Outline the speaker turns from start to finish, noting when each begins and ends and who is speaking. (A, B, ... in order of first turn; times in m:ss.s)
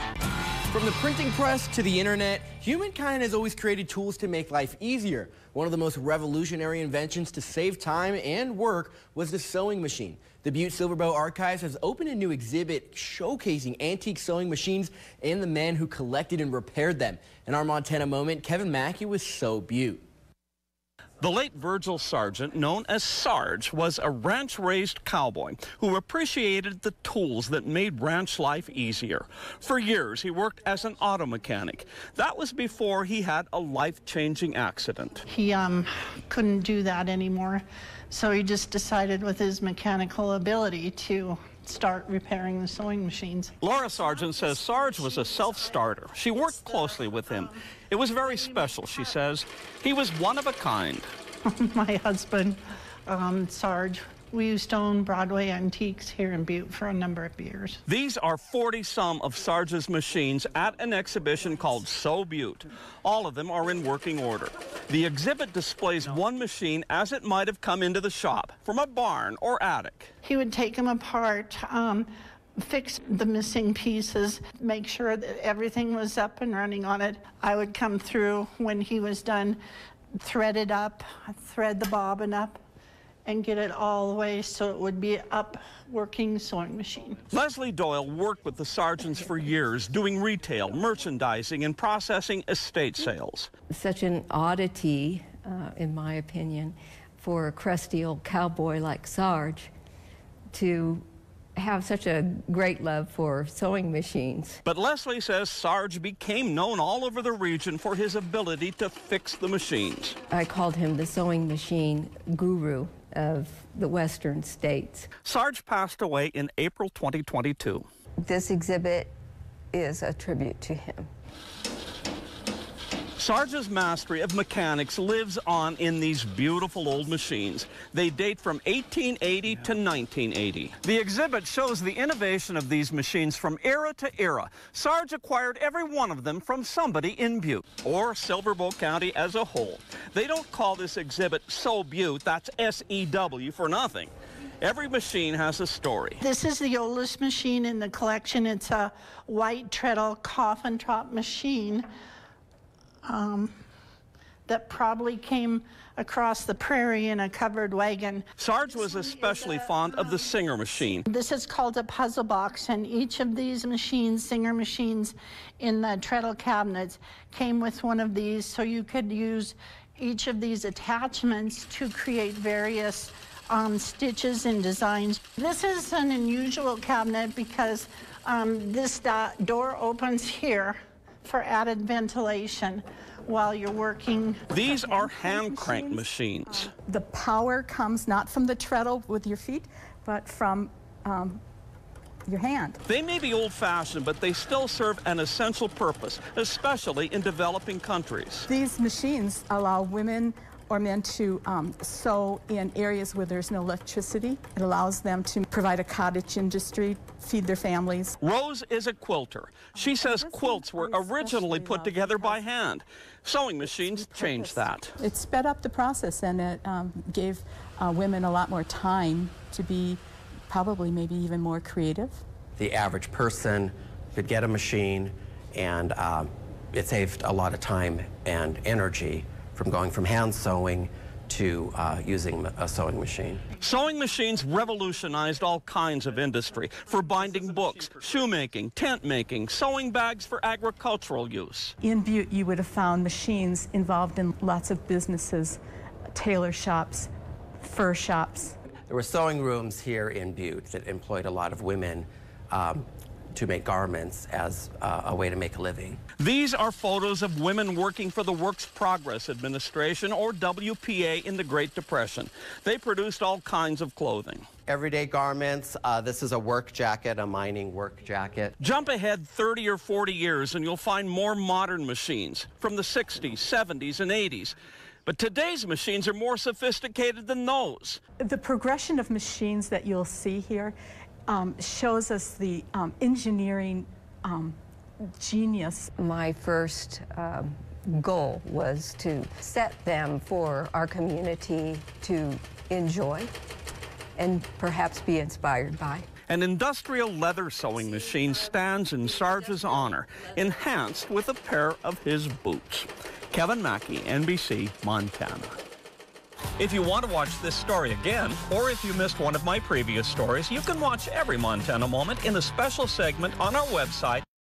0:00.7-0:20.0 A
0:21.2-0:35.2 B
0:35.3-0:43.6 C
0:43.6-0:51.1 B
0:48.4-0:48.8 C
0:51.4-0:57.8 C
0:57.9-1:10.1 B
1:10.2-1:19.6 C
1:20.1-1:22.6 C
1:23.3-1:27.2 C
1:27.3-1:33.5 B
1:29.1-1:29.5 D
1:33.7-1:39.7 D
1:40.5-1:44.6 D
1:44.6-1:50.2 B
1:50.3-1:55.1 D
1:55.2-1:57.9 B
1:58.2-1:59.2 D
1:59.7-2:01.1 D
2:03.2-2:26.2 B
2:26.2-2:31.9 C
2:33.0-2:33.6 C
2:34.5-2:40.3 C
2:38.4-2:41.1 B
2:41.1-3:04.4 C
3:04.5-3:06.7 B
3:04.6-3:11.4 E
3:12.3-3:12.8 E
3:12.9-3:18.5 B
3:18.5-3:28.2 E
3:28.2-3:34.9 B
3:29.8-3:32.4 E
3:34.0-3:34.6 C
3:35.0-3:42.2 E
3:42.6-3:53.4 F
3:53.6-4:01.7 B
4:01.8-4:05.6 E
4:06.1-4:08.6 E
4:08.9-4:16.0 F
4:16.2-4:24.5 B
4:24.7-4:28.6 F
4:28.6-4:34.5 B
4:35.1-4:38.0 B
4:38.2-4:40.8 E
4:41.3-4:44.6 E
4:45.2-4:45.9 E
4:46.0-4:53.3 D
4:54.2-4:56.1 D
4:56.3-5:05.6 B
5:06.6-5:14.2 B